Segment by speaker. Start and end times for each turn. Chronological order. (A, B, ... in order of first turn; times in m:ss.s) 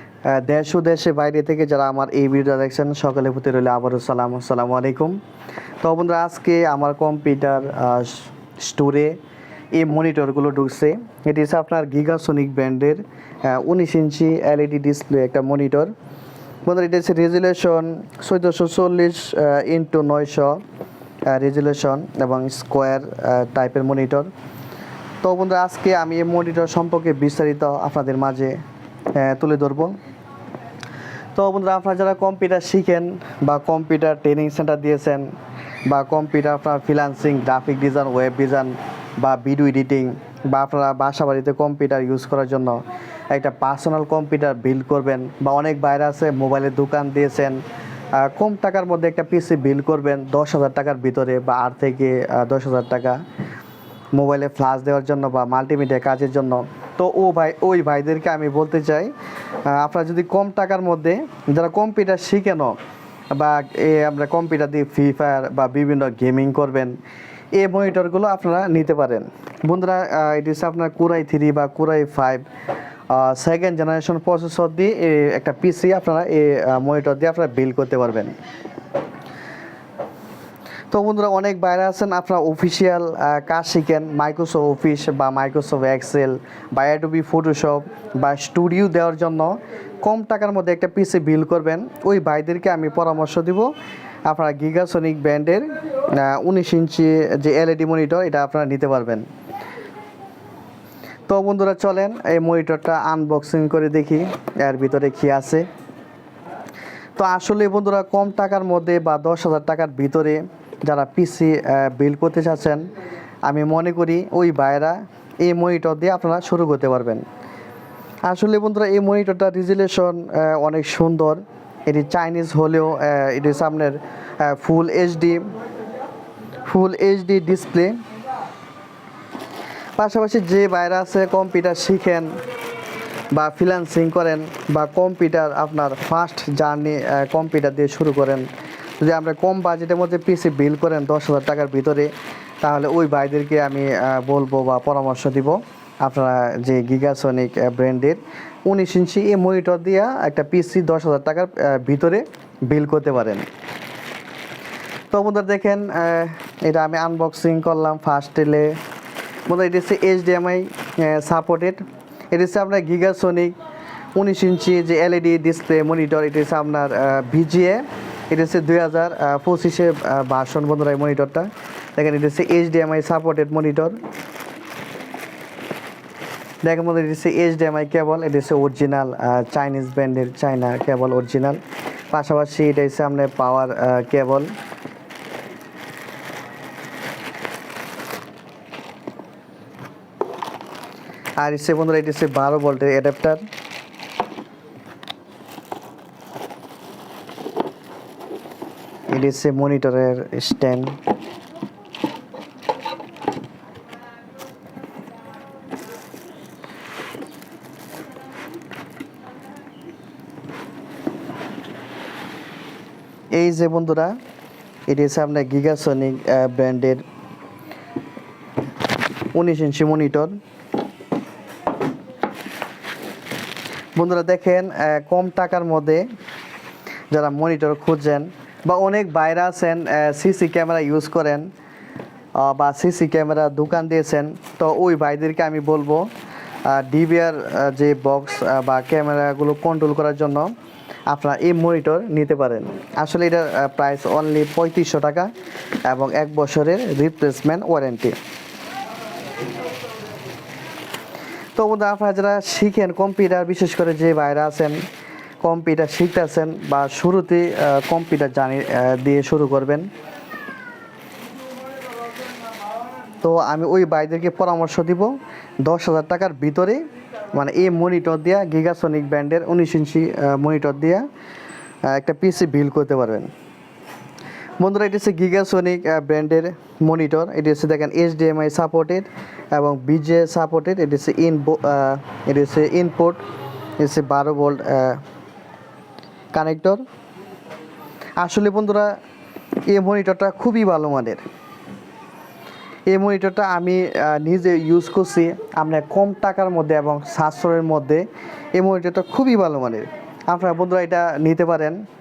0:00.3-0:05.2 A
0:05.8-0:09.2 A
0:09.7-0:15.9 A
0:16.7-0:20.6 A
0:21.3-0:24.3 A
0:25.2-0:28.6 A
0:29.2-0:29.9 A
0:31.4-0:35.3 A
0:35.9-0:47.6 A
0:48.1-0:53.2 A
0:54.2-0:59.1 A
0:59.6-1:02.8 A
1:03.3-1:07.0 A
1:07.6-1:12.4 A
1:13.1-1:18.3 A
1:20.9-1:33.7 A
1:34.3-1:39.3 A
1:41.3-1:45.7 A
1:47.2-1:52.9 A
1:53.4-1:57.2 A
1:58.3-2:05.5 A
2:06.6-2:08.0 A
2:10.0-2:12.4 A
2:13.3-2:18.5 A
2:19.0-2:22.1 A
2:22.6-2:33.5 A
2:35.1-2:38.7 A
2:39.5-2:41.8 A
2:42.3-2:43.6 A
2:44.2-2:54.0 A
2:56.6-3:01.6 A
3:02.1-3:04.5 A
3:11.4-3:13.4 A
3:19.1-3:21.0 A
3:33.3-3:34.2 A
3:34.9-3:37.0 A
3:39.3-3:40.4 A
3:44.0-3:46.0 A
3:47.1-3:51.5 A
3:52.4-3:56.1 A
3:56.6-4:00.5 A
4:01.1-4:05.3 A
4:05.9-4:08.2 A
4:11.6-4:14.8 A
4:15.4-4:19.9 A
4:23.2-4:25.1 A
4:25.6-4:31.1 A
4:31.8-4:33.3 A
4:34.6-4:43.2 A
4:43.8-4:45.0 A
4:46.3-4:46.8 A
4:48.2-4:48.9 A
4:49.7-4:51.2 A
4:52.9-5:01.8 A